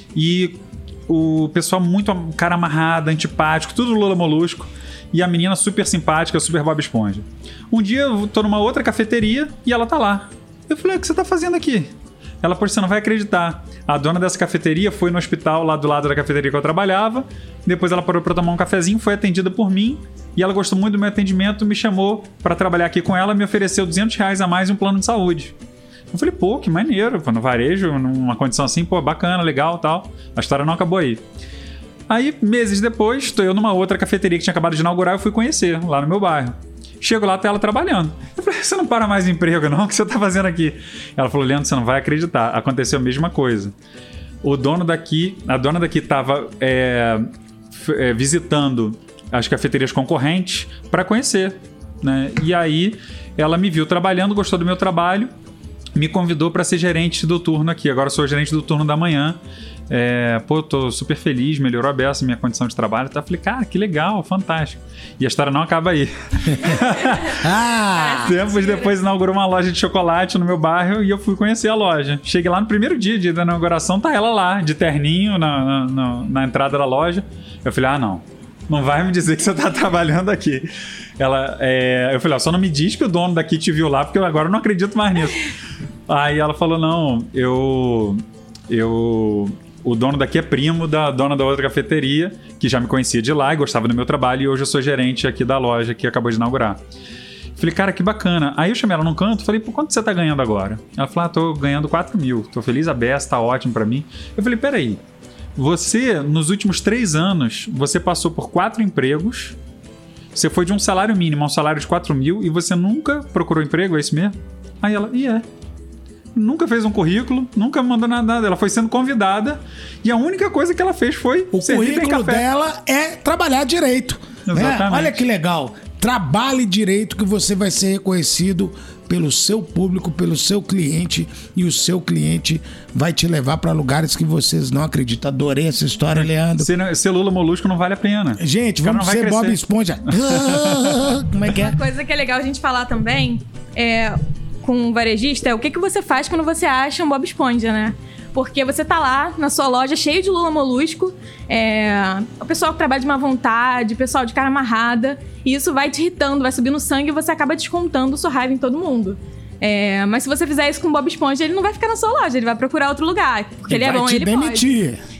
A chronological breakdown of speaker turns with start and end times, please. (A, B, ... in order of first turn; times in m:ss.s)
0:00.1-0:25.5 A
0:26.1-0:31.2 A
0:32.1-0:43.7 A
0:44.4-0:55.3 A
0:55.9-1:07.4 A
1:07.3-1:08.4 B
1:08.0-1:08.9 C
1:08.2-1:25.5 A
1:26.1-1:36.8 A
1:37.6-1:45.0 A
1:45.6-1:49.6 A
1:50.3-1:55.4 A
1:56.3-2:02.5 A
2:01.5-2:16.7 B
2:04.4-2:05.2 A
2:16.1-2:20.9 A
2:18.4-2:21.8 B
2:21.5-2:44.7 C
2:43.7-2:45.0 B